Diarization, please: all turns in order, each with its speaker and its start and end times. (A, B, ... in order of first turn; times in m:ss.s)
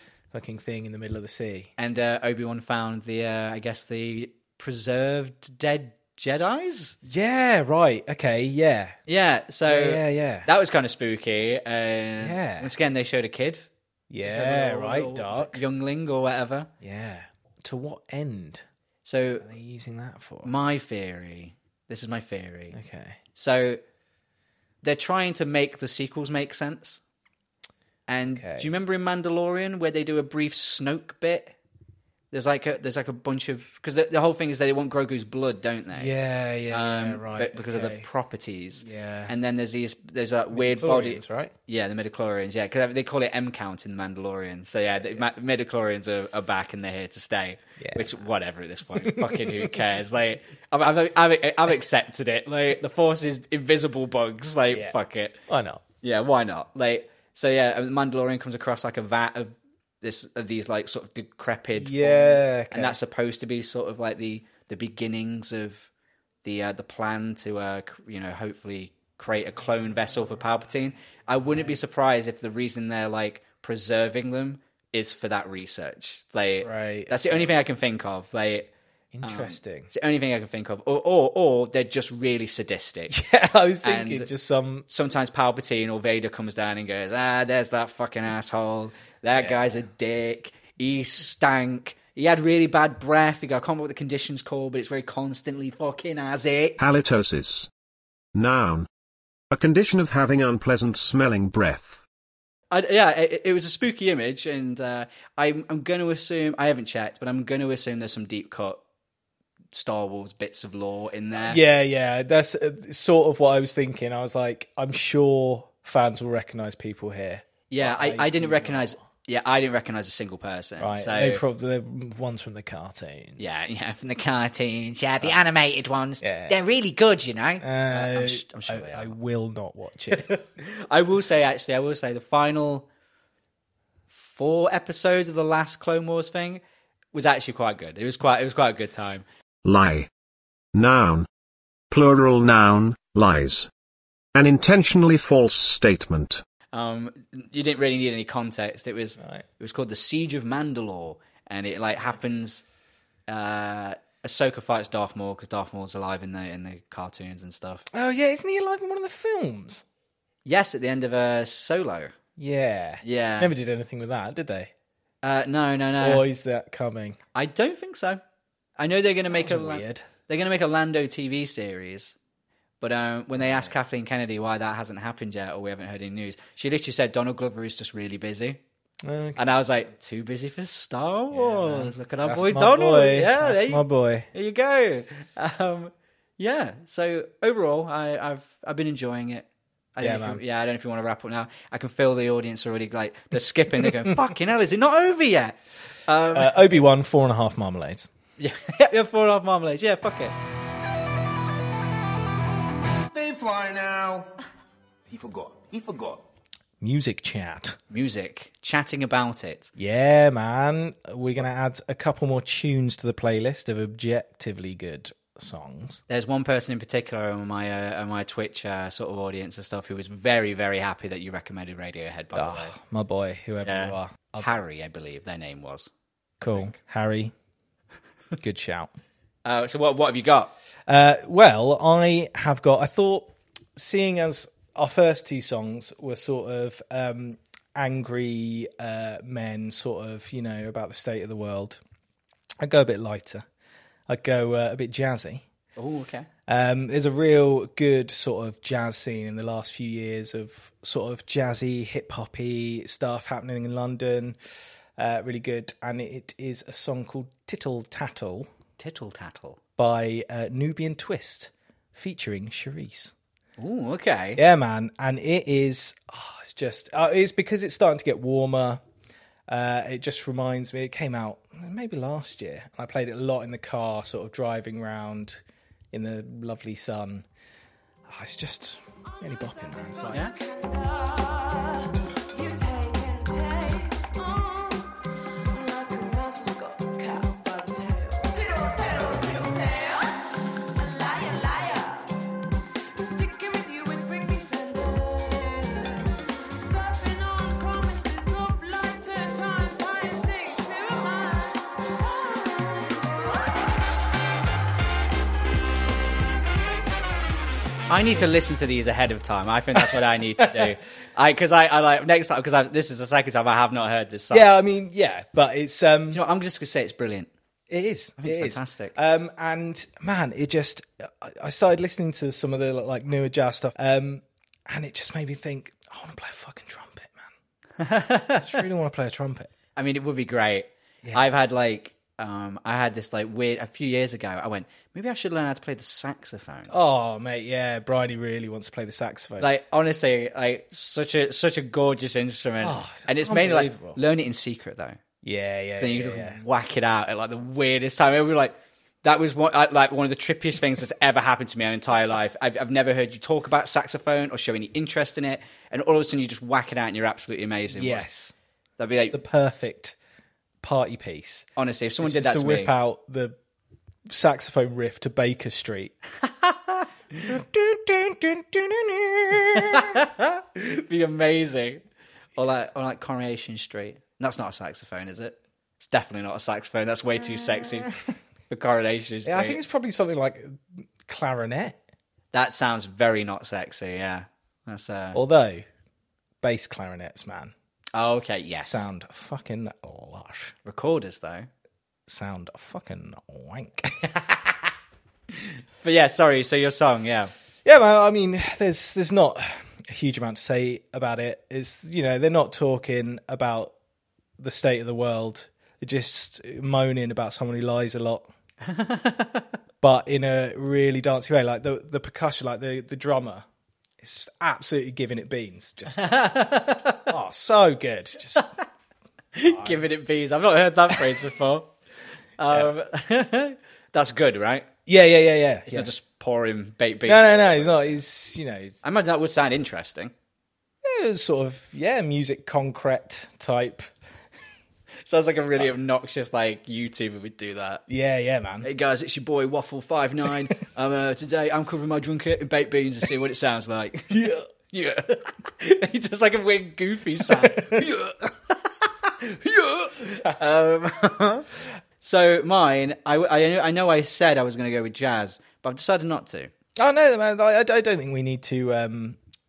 0:00.3-0:01.7 A
0:01.8-0:07.0 B
0:07.0-0:09.0 A
0:09.1-0:13.7 B
0:09.7-0:10.5 A
0:12.2-0:12.7 A
0:14.1-0:15.6 A
0:14.2-0:16.7 B
0:16.8-0:18.6 A
0:19.0-0:19.4 B
0:19.4-0:20.5 A
0:20.4-0:22.8 B
0:22.7-0:23.2 A
0:23.3-0:23.8 B
0:24.8-0:27.0 B
0:28.1-0:31.5 B
0:28.3-0:28.7 A
0:32.3-0:36.1 B
0:35.9-0:38.1 A
0:36.7-0:55.4 B
0:38.8-0:39.3 A
0:40.5-0:41.5 A
0:47.8-0:48.1 A
0:48.9-0:49.7 A
0:55.5-0:55.8 A
0:56.0-1:05.9 B
1:01.8-1:03.0 A
1:06.4-1:18.7 B
1:11.5-1:11.8 A
1:16.6-1:17.5 A
1:19.1-1:19.9 A
1:19.2-1:23.2 B
1:23.1-1:24.8 A
1:23.8-1:24.3 B
1:24.9-1:36.8 B
1:29.3-1:29.8 A
1:36.8-1:37.7 C
1:38.3-1:38.9 C
1:39.5-1:42.0 C
1:42.7-1:48.8 B
1:49.7-1:51.6 B
1:51.3-1:59.0 A
1:57.7-2:01.4 B
2:00.8-2:03.5 A
2:03.4-2:09.1 B
2:06.2-2:06.6 A
2:07.6-2:10.3 A
2:10.1-2:12.9 B
2:14.1-2:16.6 B
2:17.1-2:19.2 B
2:19.6-2:20.1 C
2:20.7-2:21.3 C
2:21.9-2:23.7 C
2:24.3-2:26.4 C
2:26.7-2:32.6 B
2:33.3-2:37.8 B
2:37.9-2:39.8 A
2:40.4-2:42.1 B
2:42.4-2:44.7 A
2:43.0-2:43.5 B
2:45.2-2:46.2 B
2:46.0-2:47.2 A
2:47.3-2:48.2 B
2:48.8-2:52.2 B
2:49.3-2:50.0 A
2:52.8-2:58.6 B
2:53.3-2:53.7 A
2:59.0-2:59.4 A
2:59.4-3:16.6 B
3:01.3-3:04.3 A
3:10.0-3:10.4 A
3:13.8-3:14.1 A
3:16.3-3:18.1 A
3:18.4-3:20.3 B
3:23.1-3:24.3 D
3:25.1-3:26.2 D
3:26.8-3:27.8 A
3:27.9-3:29.7 B
3:29.8-3:36.0 A
3:36.1-3:42.7 B
3:42.3-3:44.5 A
3:43.6-3:45.9 B
3:46.4-3:47.3 A
3:46.4-3:46.7 B
3:48.4-3:48.9 A
3:49.4-3:50.5 B
3:50.9-4:01.8 A
4:02.6-4:03.4 A
4:04.1-4:05.4 A
4:05.8-4:06.3 B
4:06.5-4:14.4 A
4:15.0-4:18.5 A
4:18.8-4:19.6 B
4:19.8-4:23.1 A
4:23.6-4:24.4 B
4:24.4-4:28.8 A
4:29.5-4:35.4 A
4:35.9-4:37.2 A
4:38.1-4:40.2 A
4:39.6-4:45.0 E
4:40.1-4:40.4 B
4:45.5-4:52.2 E
4:53.0-5:03.6 E
5:07.9-5:14.5 B
5:09.7-5:10.7 A
5:14.3-5:16.2 A
5:16.1-5:17.3 B
5:17.7-5:27.3 A
5:18.2-5:18.9 B
5:27.8-5:28.6 B
5:28.4-5:29.5 A
5:29.8-5:36.7 B
5:36.7-5:39.5 A
5:39.4-5:45.0 B
5:42.6-5:44.0 A
5:45.2-5:46.4 A
5:45.8-5:58.1 B
5:57.7-5:58.3 A
5:58.8-5:59.2 B
5:59.1-6:00.0 A
6:00.6-6:01.5 A
6:01.6-6:02.7 B
6:02.0-6:03.4 A
6:04.1-6:06.0 A
6:06.2-6:06.8 B
6:07.2-6:10.0 A
6:09.5-6:11.8 B
6:12.4-6:17.9 B
6:18.5-6:19.6 B
6:19.2-6:21.8 A
6:22.3-6:25.2 B
6:25.1-6:25.6 A
6:26.4-6:27.5 A
6:27.9-6:28.8 B
6:28.6-6:30.5 A
6:30.6-6:31.5 B
6:32.1-6:34.2 A
6:35.4-6:37.3 B
6:37.6-6:43.7 A
6:44.4-6:48.3 A
6:48.6-6:49.5 B
6:49.8-6:53.4 A
6:54.0-6:56.1 A
6:55.9-6:57.1 B
6:57.1-6:58.5 A
6:59.3-7:01.7 B
6:59.4-6:59.8 A
7:02.4-7:04.7 B
7:04.8-7:05.9 A
7:05.7-7:08.0 B
7:07.0-7:08.8 A
7:08.8-7:10.1 B
7:10.8-7:13.9 A
7:15.0-7:17.8 B
7:17.9-7:18.7 A
7:18.6-7:28.1 B
7:24.1-7:24.5 A
7:27.4-7:28.0 A
7:28.8-7:31.5 B
7:32.0-7:36.5 B
7:36.8-7:39.2 A